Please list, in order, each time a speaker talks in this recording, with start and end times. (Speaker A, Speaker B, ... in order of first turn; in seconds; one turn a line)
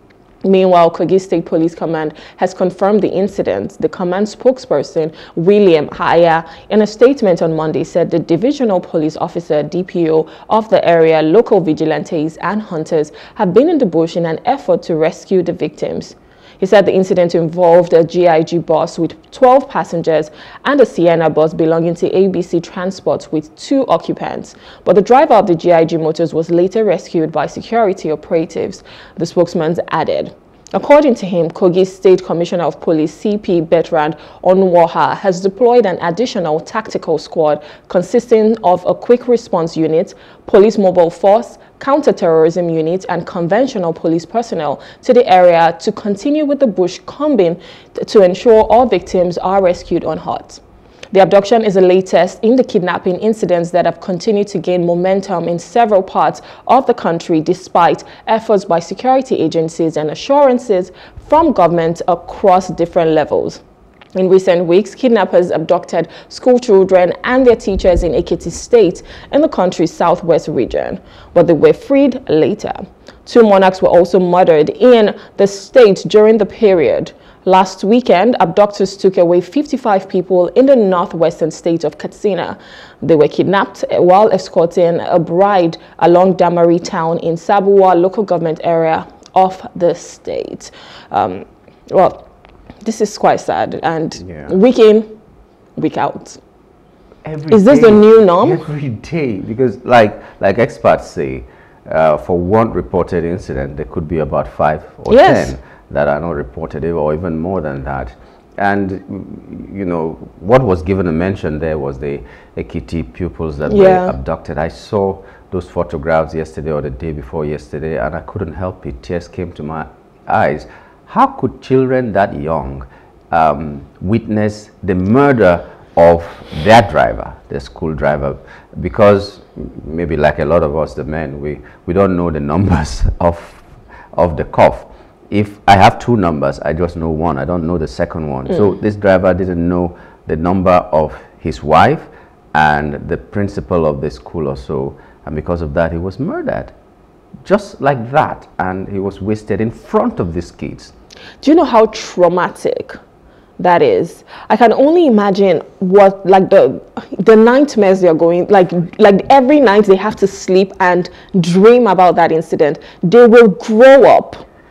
Speaker A: 0.4-50.6
Speaker A: 51.1-63.6
Speaker A: 64.2-92.2
Speaker A: 92.8-95.1
Speaker B: 94.2-94.5
Speaker A: 95.8-96.4
Speaker B: 97.2-146.8
Speaker A: 97.5-98.6
Speaker A: 105.1-105.5
Speaker A: 113.7-114.2
Speaker B: 147.4-150.9
Speaker A: 151.4-153.0
Speaker A: 153.6-164.4